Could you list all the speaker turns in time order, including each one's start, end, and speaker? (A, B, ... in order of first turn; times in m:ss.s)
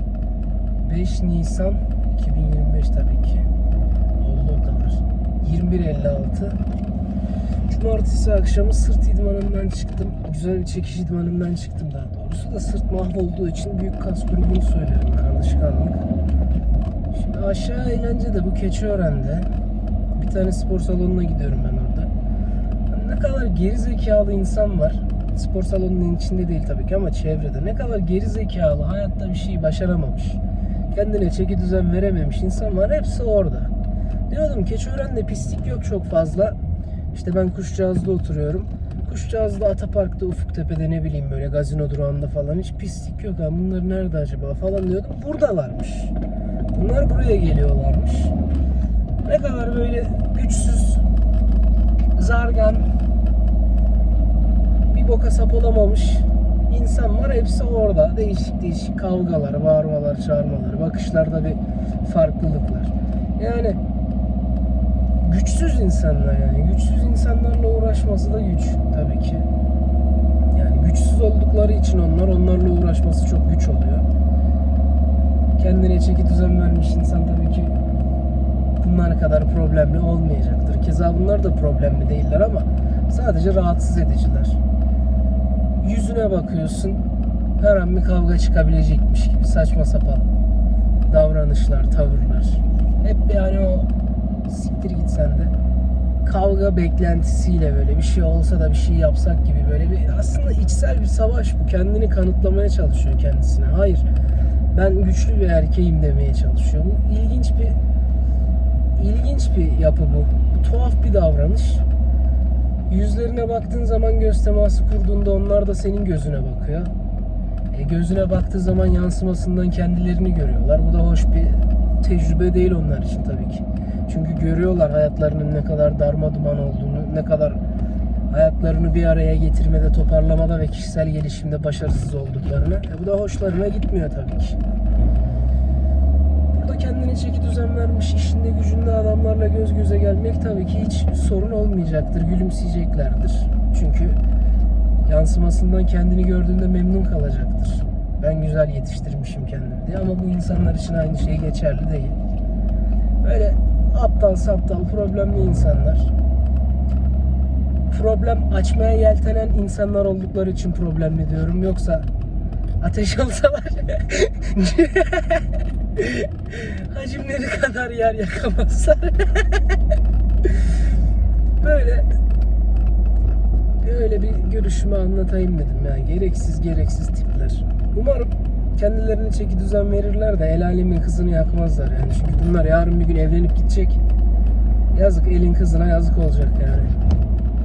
0:00.8-0:03.5 A
0:04.2-0:06.6 A
0:07.7-0:16.0 A
0:17.1-0:19.5 A
0:20.1-0:22.1 A
0:22.9-0:30.4 A
0:30.9-0:33.7 A
0:34.3-0:36.6 A
0:37.1-0:46.1 A
0:46.7-0:48.3 A
0:49.2-0:51.1 A
0:52.2-0:52.9 A
0:54.9-1:03.8 A
1:05.2-1:09.5 A
1:10.5-1:14.0 A
1:15.6-1:17.8 A
1:18.8-1:24.6 A
1:25.8-1:27.0 A
1:27.6-1:30.3 A
1:31.1-1:33.9 A
1:34.5-1:35.5 A
1:36.2-1:44.1 A
1:44.7-1:47.8 A
1:49.0-1:51.8 A
1:52.9-1:56.9 A
1:57.7-2:07.6 A
2:08.3-2:14.6 A
2:16.5-2:24.2 A
2:25.0-2:32.2 A
2:33.2-2:36.1 A
2:37.9-2:42.1 A
2:42.8-2:49.8 A
2:51.6-2:52.1 A
2:53.8-3:04.0 A
3:04.9-3:06.9 A